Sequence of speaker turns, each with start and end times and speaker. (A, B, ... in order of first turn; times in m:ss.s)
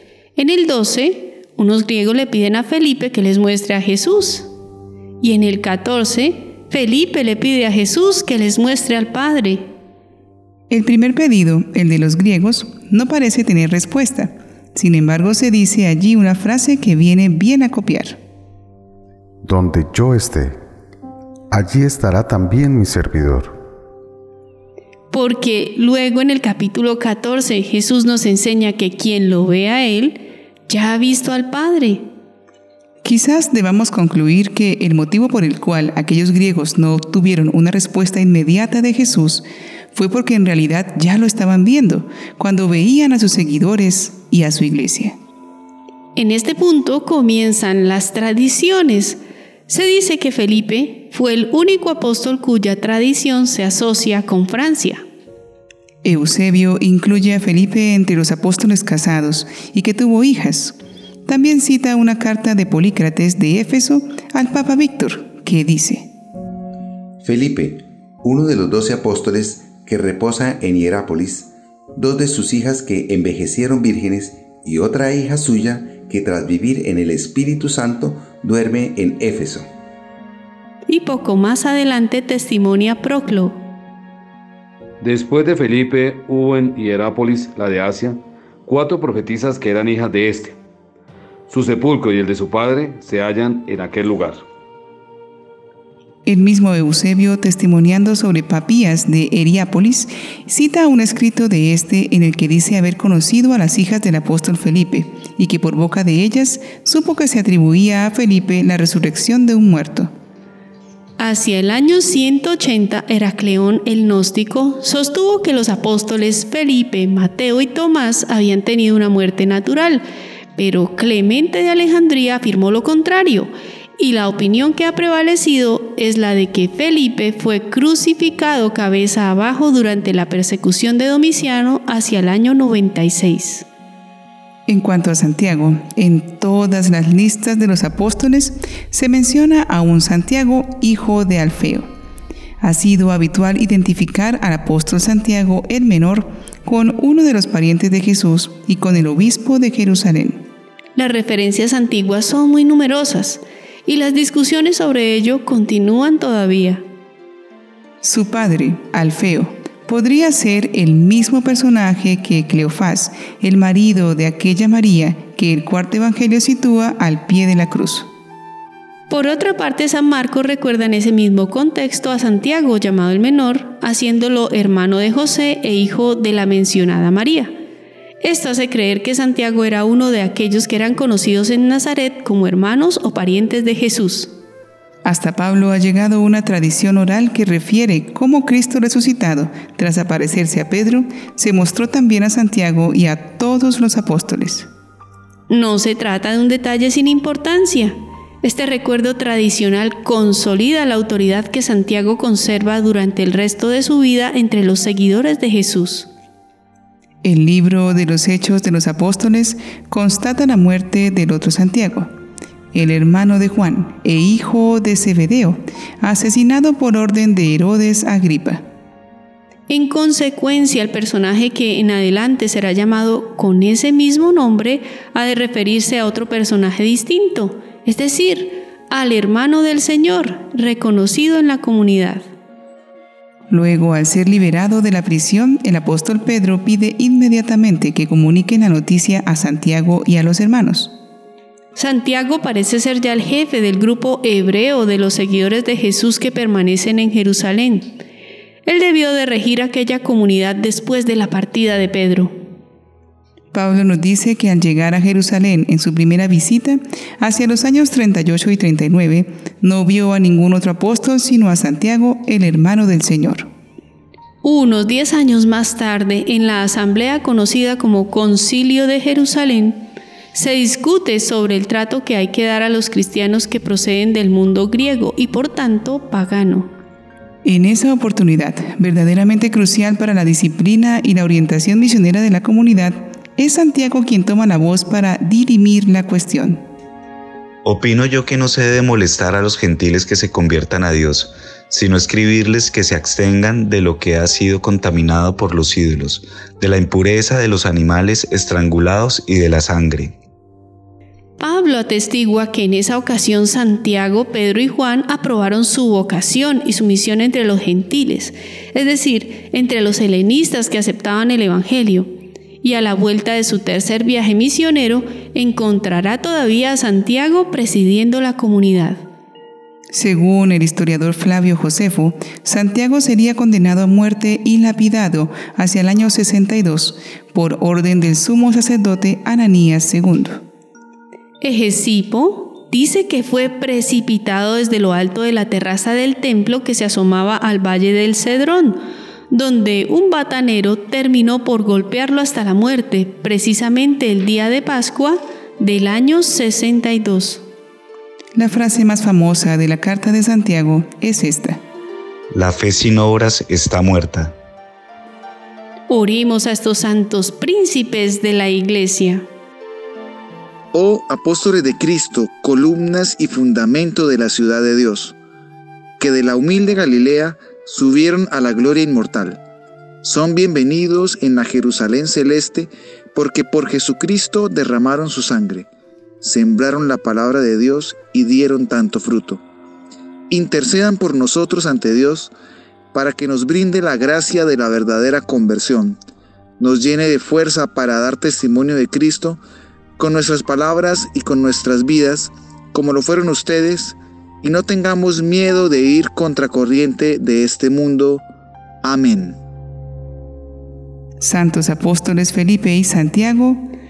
0:00.4-0:04.5 A
0:05.2-0:09.7 A
0:10.7-0:18.2 B
0:19.5-0:20.5 C
0:21.5-0:23.5 C
0:25.1-0:32.0 A
0:33.0-0:45.2 B
0:46.2-0:55.0 A
0:56.0-1:00.8 B
1:01.3-1:06.1 B
1:07.2-1:19.7 D
1:20.9-1:23.6 A
1:25.0-1:30.6 E
1:31.5-1:34.4 E
1:36.3-1:50.1 B
1:51.2-2:00.0 A
2:00.6-2:13.7 A
2:14.7-2:21.9 B
2:22.6-2:30.4 B
2:31.0-2:36.8 A
2:38.0-2:48.1 B
2:49.1-2:57.5 A
2:58.2-3:04.3 A
3:05.0-3:14.7 B
3:15.5-3:26.1 A
3:27.2-3:32.1 B
3:32.7-3:38.6 B
3:39.7-3:52.3 A
3:53.5-4:00.9 B
4:01.8-4:08.0 A
4:08.6-4:12.3 A
4:13.5-4:23.5 B
4:24.4-4:36.7 A
4:37.4-4:46.6 B
4:47.6-5:00.2 F
5:01.4-5:12.1 A
5:12.6-5:19.0 A
5:19.9-5:30.4 B
5:31.4-5:47.4 A
5:48.4-5:51.6 B
5:52.3-5:54.4 F
5:55.9-5:59.3 A
6:00.7-6:05.2 G
6:06.0-6:09.4 G
6:10.0-6:15.7 G
6:16.2-6:19.4 G
6:20.3-6:22.3 G
6:22.9-6:26.0 G
6:26.6-6:29.4 G
6:30.0-6:38.2 G
6:38.8-6:39.4 G
6:41.2-6:43.7 B